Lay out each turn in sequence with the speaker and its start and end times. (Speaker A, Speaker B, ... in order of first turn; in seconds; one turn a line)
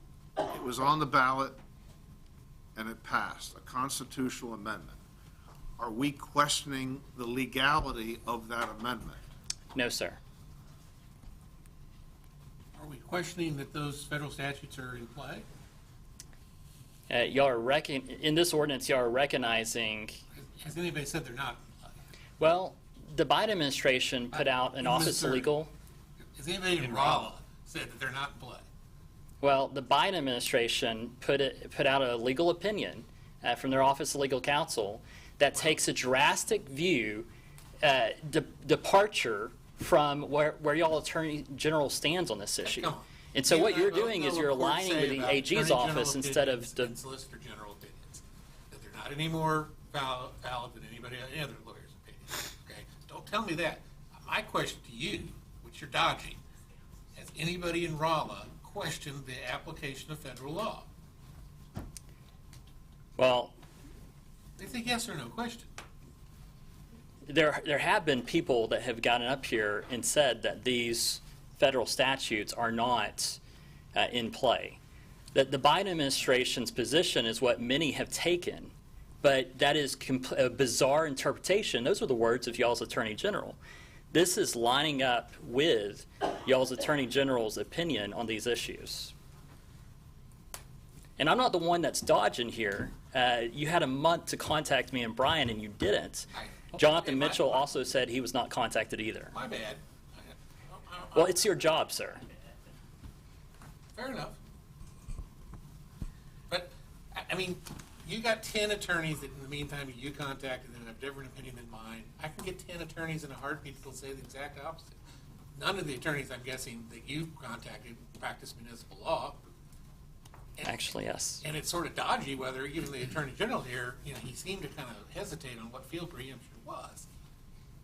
Speaker A: 0.4-1.6
Speaker A: 2.8-5.0
Speaker A: 5.8-9.2
Speaker B: 9.7-10.2
Speaker C: 12.8-15.4
Speaker B: 17.1-20.2
Speaker C: 20.4-21.6
Speaker B: 22.4-25.7
Speaker C: 24.3-25.5
Speaker C: 26.4-28.6
Speaker B: 26.8-27.2
Speaker B: 29.4-37.3
Speaker B: 37.8-47.0
Speaker C: 42.6-56.4
Speaker C: 57.1-60.9
Speaker B: 63.2-63.5
Speaker C: 64.6-65.7
Speaker B: 67.3-73.4
Speaker B: 74.0-74.8
Speaker B: 75.3-83.6
Speaker B: 84.1-89.1
Speaker B: 91.2-99.3
Speaker C: 96.3-97.7
Speaker C: 99.3-101.5
Speaker B: 101.1-102.2
Speaker C: 104.0-104.4
Speaker C: 106.5-115.0
Speaker C: 115.5-119.4
Speaker C: 120.6-120.9
Speaker B: 120.6-121.4
Speaker C: 121.4-127.0